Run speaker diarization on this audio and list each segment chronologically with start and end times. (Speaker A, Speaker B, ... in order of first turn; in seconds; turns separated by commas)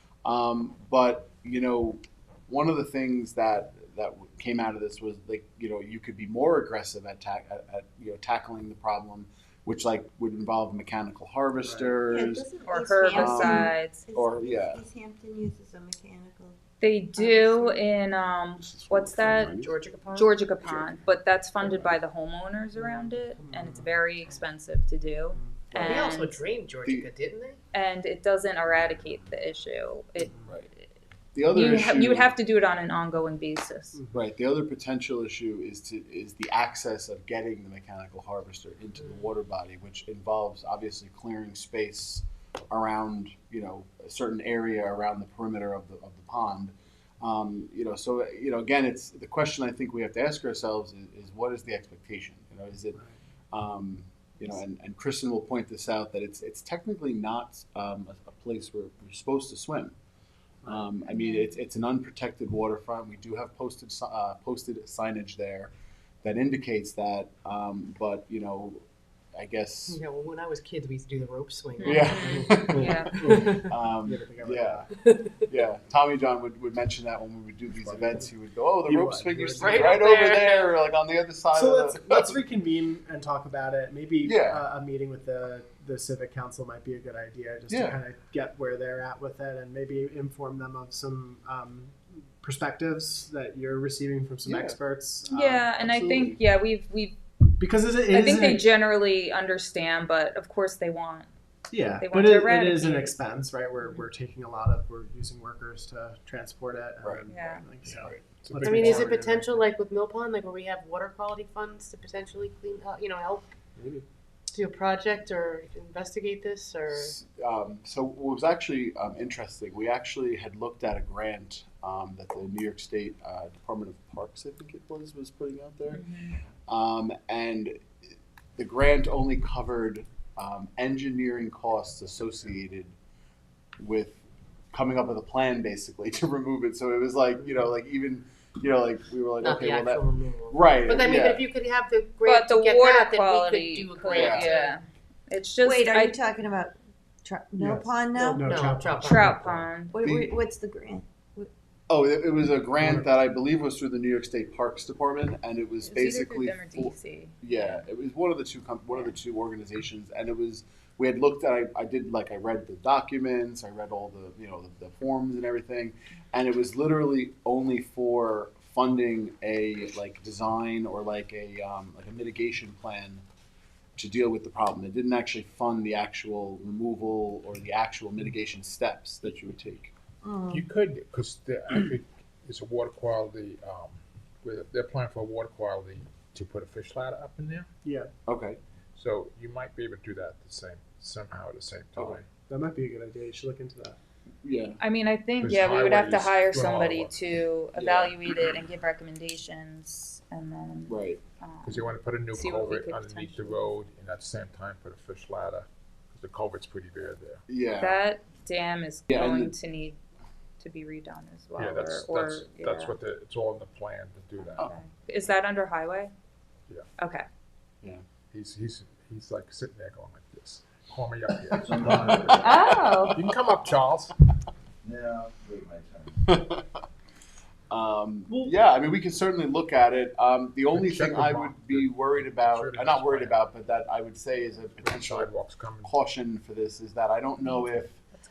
Speaker A: 0.2-12.5, Speaker B: 11.6-12.0, Speaker C: 12.1-16.6, Speaker D: 12.6-14.0, Speaker A: 13.1-14.8, Speaker D: 16.8-19.5, Speaker E: 17.3-17.5, Speaker A: 18.6-19.7, Speaker E: 19.5-20.5, Speaker D: 20.1-26.4, Speaker A: 20.6-21.0, Speaker A: 21.6-22.0, Speaker B: 22.7-24.4, Speaker B: 25.3-25.7, Speaker A: 25.7-26.1, Speaker E: 25.9-27.6, Speaker A: 26.8-27.1, Speaker D: 27.7-30.3, Speaker A: 31.3-32.3, Speaker D: 31.5-34.0, Speaker B: 33.9-34.2, Speaker A: 34.1-53.0, Speaker A: 53.5-59.9, Speaker B: 60.6-61.0, Speaker A: 60.6-65.7, Speaker A: 66.2-70.0, Speaker E: 69.9-73.1, Speaker D: 71.8-73.3, Speaker A: 71.8-74.8, Speaker B: 72.7-74.9, Speaker E: 75.1-75.4, Speaker A: 75.5-82.4, Speaker F: 77.8-78.1, Speaker B: 78.8-80.2, Speaker E: 79.6-80.7, Speaker B: 81.5-95.8, Speaker A: 84.2-84.6, Speaker A: 87.7-88.0, Speaker A: 94.4-94.8, Speaker D: 95.3-97.2, Speaker A: 95.8-96.4, Speaker B: 97.6-98.7, Speaker D: 98.1-101.3, Speaker B: 101.7-109.6, Speaker D: 102.0-103.1, Speaker D: 107.3-107.6, Speaker A: 107.9-108.2, Speaker F: 108.4-109.1, Speaker E: 108.6-113.5, Speaker B: 113.8-114.0, Speaker E: 114.5-117.2, Speaker A: 116.9-126.0, Speaker D: 125.9-126.4, Speaker A: 126.7-127.8, Speaker A: 128.6-132.9, Speaker A: 133.8-134.2, Speaker A: 134.7-141.4, Speaker E: 139.4-144.8, Speaker D: 142.2-146.2, Speaker A: 144.1-144.5, Speaker C: 145.6-148.4, Speaker B: 147.6-149.7, Speaker E: 148.2-149.4, Speaker D: 149.0-150.0, Speaker C: 149.9-151.5, Speaker A: 150.0-150.4, Speaker A: 151.9-173.2, Speaker B: 152.8-153.1, Speaker D: 155.8-157.8, Speaker A: 173.9-179.9, Speaker C: 180.2-180.6, Speaker F: 180.5-187.7, Speaker B: 187.8-188.1, Speaker A: 188.3-188.6, Speaker F: 188.9-192.3, Speaker A: 191.9-192.2, Speaker B: 192.5-194.0, Speaker A: 194.4-194.8, Speaker D: 194.8-203.6, Speaker F: 195.4-197.1, Speaker A: 197.8-198.2, Speaker A: 200.9-201.2, Speaker F: 201.7-207.4, Speaker A: 207.5-208.0, Speaker D: 207.8-210.0, Speaker A: 209.1-209.5, Speaker D: 210.6-212.9, Speaker F: 211.6-214.7, Speaker D: 214.6-216.1, Speaker D: 217.0-217.2, Speaker F: 218.3-224.1, Speaker G: 221.6-222.6, Speaker D: 222.4-223.2, Speaker G: 224.8-226.3, Speaker A: 226.2-226.6, Speaker A: 227.7-238.0, Speaker F: 230.7-233.4, Speaker F: 234.8-235.9